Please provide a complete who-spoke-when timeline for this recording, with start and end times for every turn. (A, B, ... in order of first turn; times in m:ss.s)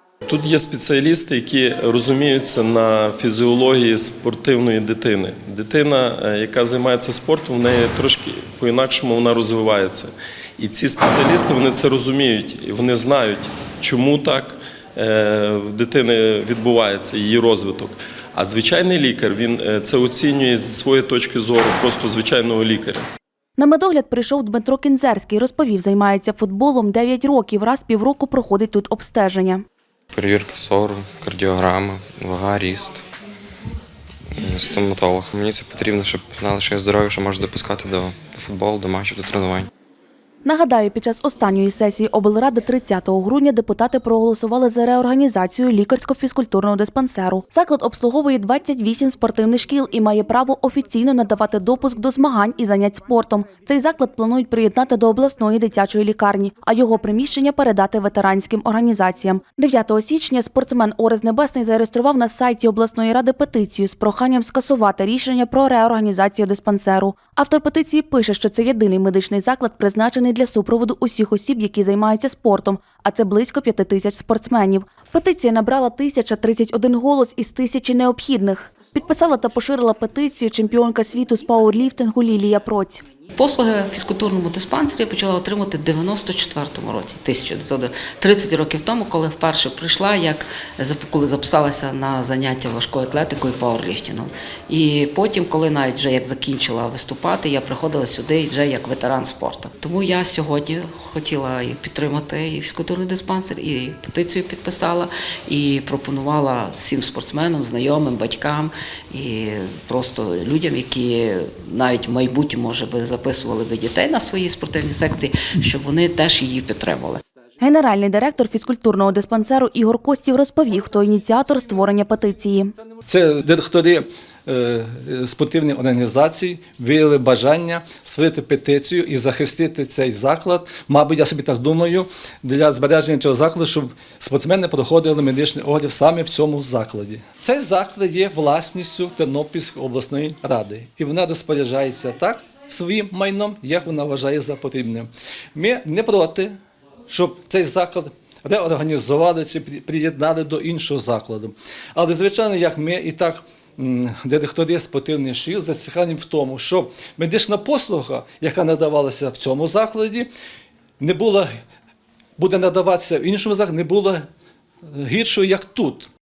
0:00.3-0:23.1 A
0:23.6-0:29.6 B
0:30.1-0:33.0 C
0:34.3-0:39.7 C
0:40.4-1:23.0 B
1:23.4-1:57.2 D
1:57.6-2:02.7 B
2:03.1-2:40.3 E
2:41.0-2:41.5 E
2:42.4-2:44.3 E
2:44.9-2:46.1 E